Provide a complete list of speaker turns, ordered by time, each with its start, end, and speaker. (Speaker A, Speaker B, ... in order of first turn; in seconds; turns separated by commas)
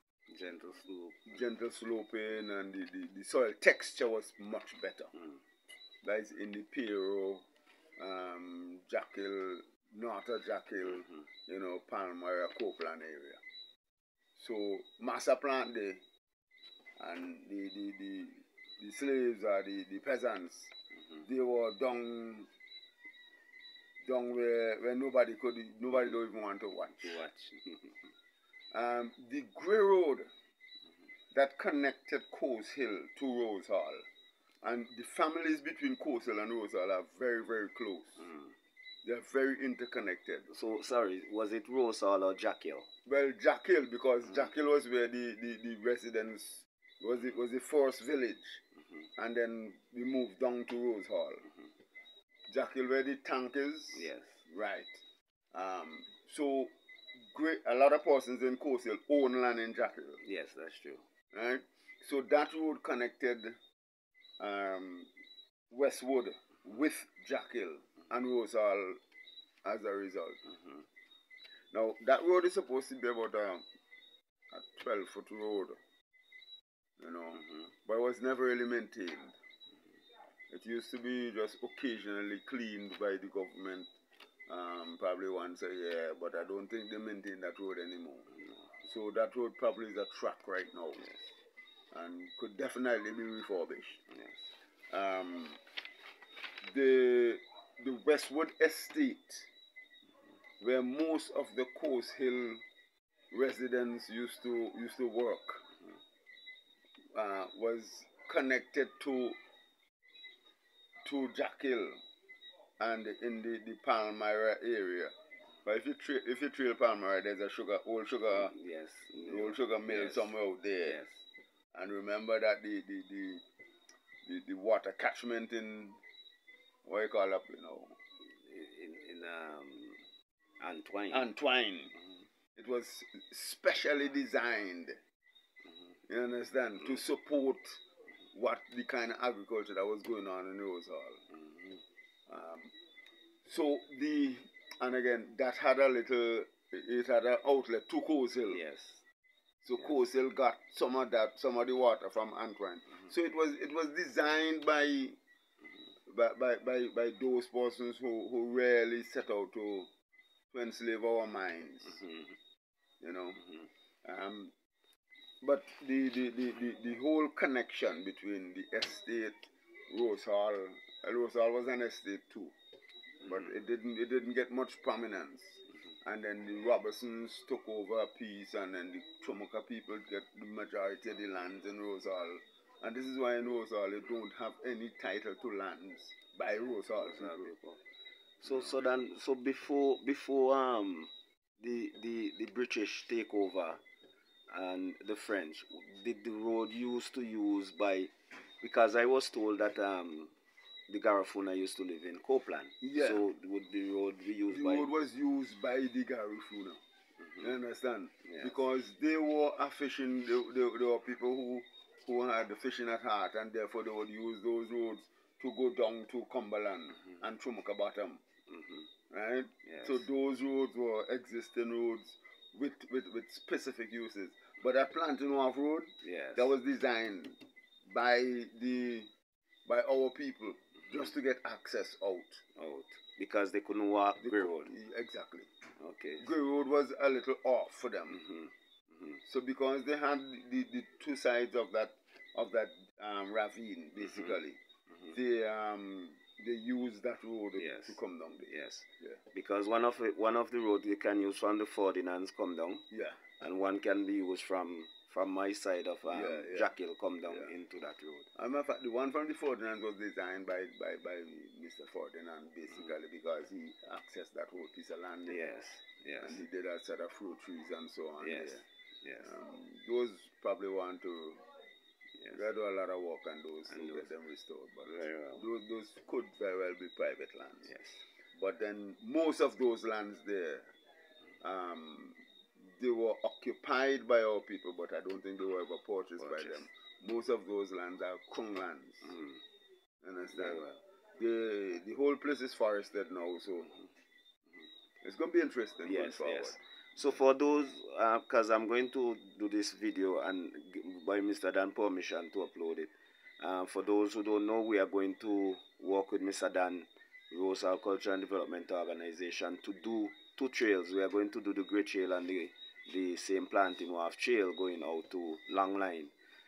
Speaker A: 0.3-1.4, Speaker B: 1.3-5.1, Speaker B: 6.0-7.5, Speaker B: 8.0-13.4, Speaker B: 14.4-16.0, Speaker B: 17.0-22.5, Speaker B: 24.0-27.2, Speaker A: 27.0-27.9, Speaker B: 28.7-30.3, Speaker B: 31.3-34.1, Speaker B: 34.6-38.3, Speaker B: 39.0-40.5, Speaker A: 40.5-42.9, Speaker B: 43.1-48.6, Speaker B: 49.2-51.5, Speaker B: 52.5-56.7, Speaker A: 53.9-54.4, Speaker B: 57.3-60.2, Speaker A: 60.2-61.0, Speaker B: 61.3-63.6, Speaker B: 64.4-65.1, Speaker B: 65.7-69.0, Speaker B: 69.6-70.4, Speaker B: 71.7-73.6, Speaker B: 74.5-75.8, Speaker B: 77.0-79.4, Speaker B: 80.5-83.9, Speaker B: 84.5-88.3, Speaker B: 88.8-91.1, Speaker B: 91.9-94.0, Speaker B: 94.9-95.6, Speaker B: 96.6-99.5, Speaker B: 100.6-102.6, Speaker B: 103.3-105.6, Speaker B: 107.1-109.4, Speaker B: 111.0-112.0, Speaker B: 112.8-115.1, Speaker B: 115.6-118.5, Speaker A: 118.3-120.3, Speaker B: 119.2-121.0, Speaker A: 120.9-121.2, Speaker B: 121.7-123.4, Speaker B: 124.2-126.0, Speaker B: 126.8-128.0, Speaker A: 128.4-130.0, Speaker A: 130.6-131.3, Speaker B: 131.1-131.9, Speaker B: 132.6-135.0, Speaker B: 136.1-137.8, Speaker B: 138.3-141.2, Speaker B: 142.3-142.7, Speaker B: 143.4-148.6, Speaker A: 148.5-149.0, Speaker B: 149.6-155.2, Speaker B: 156.1-159.9, Speaker B: 160.5-162.0, Speaker B: 163.0-163.4, Speaker B: 164.0-164.5, Speaker B: 165.4-172.5, Speaker B: 173.2-187.5, Speaker A: 187.0-187.8, Speaker A: 188.4-193.8, Speaker B: 188.4-188.8, Speaker A: 194.5-200.3, Speaker A: 200.9-204.9, Speaker B: 202.8-203.2, Speaker B: 204.5-206.8, Speaker B: 207.4-218.2, Speaker A: 208.3-208.5, Speaker A: 218.5-218.9, Speaker B: 219.1-229.1, Speaker A: 219.7-220.0, Speaker A: 226.0-226.5, Speaker B: 229.7-232.4, Speaker A: 232.6-234.7, Speaker B: 234.2-235.5, Speaker A: 235.8-236.3, Speaker B: 236.2-238.2, Speaker A: 238.1-239.2, Speaker B: 239.2-244.6, Speaker A: 244.0-244.3, Speaker B: 245.1-249.2, Speaker A: 247.6-248.0, Speaker A: 248.5-252.8, Speaker B: 252.9-253.2, Speaker A: 253.4-258.3, Speaker B: 256.1-256.7, Speaker B: 258.4-265.4, Speaker A: 265.3-266.4, Speaker B: 266.2-268.6, Speaker A: 268.2-269.3, Speaker B: 269.2-271.4, Speaker B: 272.3-277.7, Speaker A: 273.7-274.1, Speaker A: 274.9-275.5, Speaker A: 277.6-278.0, Speaker B: 278.4-280.7, Speaker B: 281.4-289.1, Speaker A: 286.2-286.6, Speaker A: 289.1-289.4, Speaker B: 290.0-293.8, Speaker A: 290.3-290.8, Speaker B: 295.0-296.6, Speaker A: 295.8-316.1